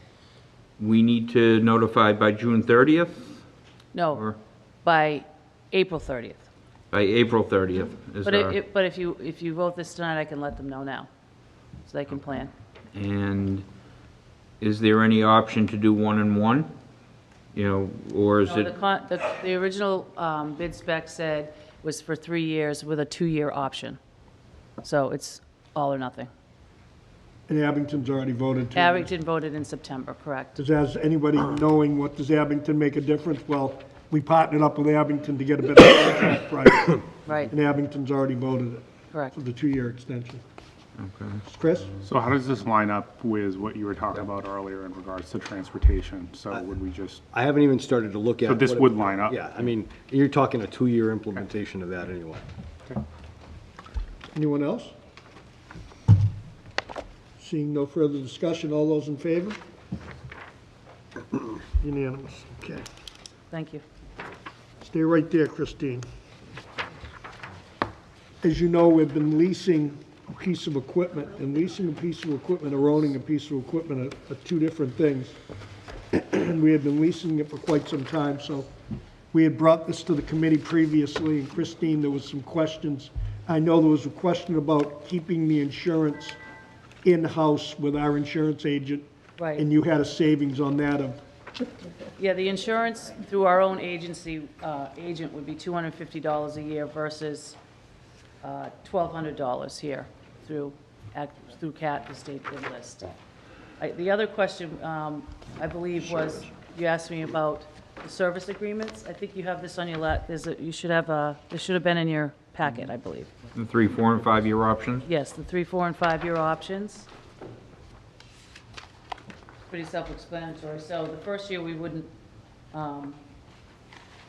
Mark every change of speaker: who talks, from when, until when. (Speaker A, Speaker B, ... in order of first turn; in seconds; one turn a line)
Speaker A: 0.8-3.4
Speaker B: 3.9-4.2
Speaker A: 4.1-4.4
Speaker B: 4.8-6.5
Speaker A: 6.9-8.6
Speaker B: 8.2-11.1
Speaker B: 11.8-12.5
Speaker A: 12.9-13.6
Speaker A: 14.6-16.7
Speaker A: 17.5-18.7
Speaker B: 18.5-24.0
Speaker B: 24.8-26.3
Speaker C: 27.5-29.1
Speaker B: 28.7-30.6
Speaker C: 30.6-40.4
Speaker B: 37.2-37.5
Speaker A: 41.0-41.4
Speaker C: 41.4-42.0
Speaker D: 42.0-47.2
Speaker E: 47.3-52.4
Speaker D: 48.4-49.5
Speaker C: 54.3-54.9
Speaker C: 57.4-59.6
Speaker C: 61.8-62.8
Speaker B: 63.5-63.8
Speaker C: 64.8-66.0
Speaker C: 68.4-75.3
Speaker C: 76.1-78.7
Speaker C: 79.3-86.4
Speaker C: 87.0-91.2
Speaker B: 89.4-89.7
Speaker B: 92.2-97.6
Speaker B: 98.4-103.1
Speaker B: 103.8-113.3
Speaker A: 113.5-115.0
Speaker B: 115.0-117.1
Speaker B: 119.7-122.1
Speaker B: 122.7-123.2